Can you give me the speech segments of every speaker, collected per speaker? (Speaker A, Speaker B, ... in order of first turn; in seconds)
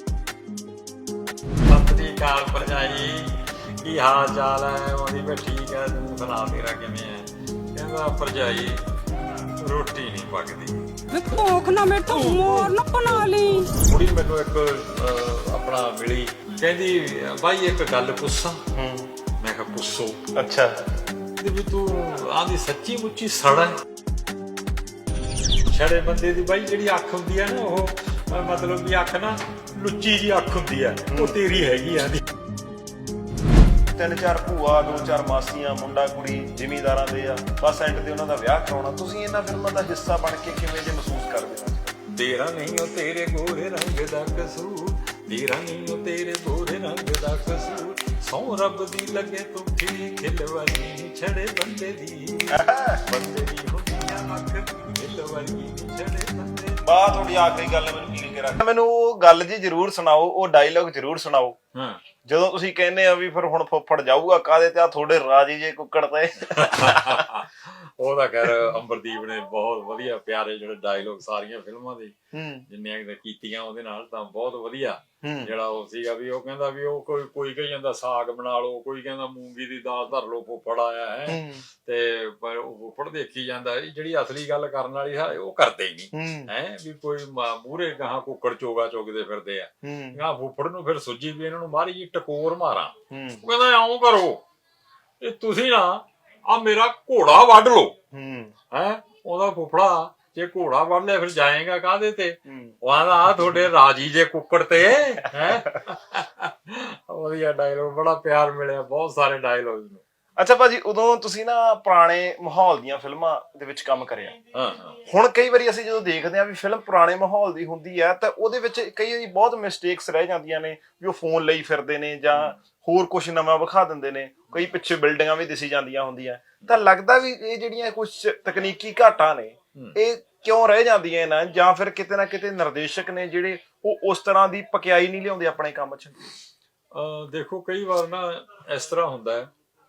Speaker A: 1.7-8.8, 9.6-10.9, 13.7-18.6, 19.4-20.3, 21.4-23.8, 25.7-32.2, 42.1-56.9, 61.7-62.0, 66.4-72.2, 72.7-94.4, 95.2-98.0, 98.7-110.0, 114.5-115.0, 122.3-122.6, 136.9-139.5
Speaker B: 11.1-13.7
Speaker C: 18.7-19.1, 20.4-20.9, 31.1-31.4, 34.0-42.0, 52.5-53.0, 56.8-61.6, 62.2-67.3, 72.3-72.7, 75.2-75.5, 81.3-81.6, 86.1-86.5, 89.8-90.2, 93.1-93.4, 98.1-98.5, 102.5-102.8, 110.4-114.4, 115.0-136.3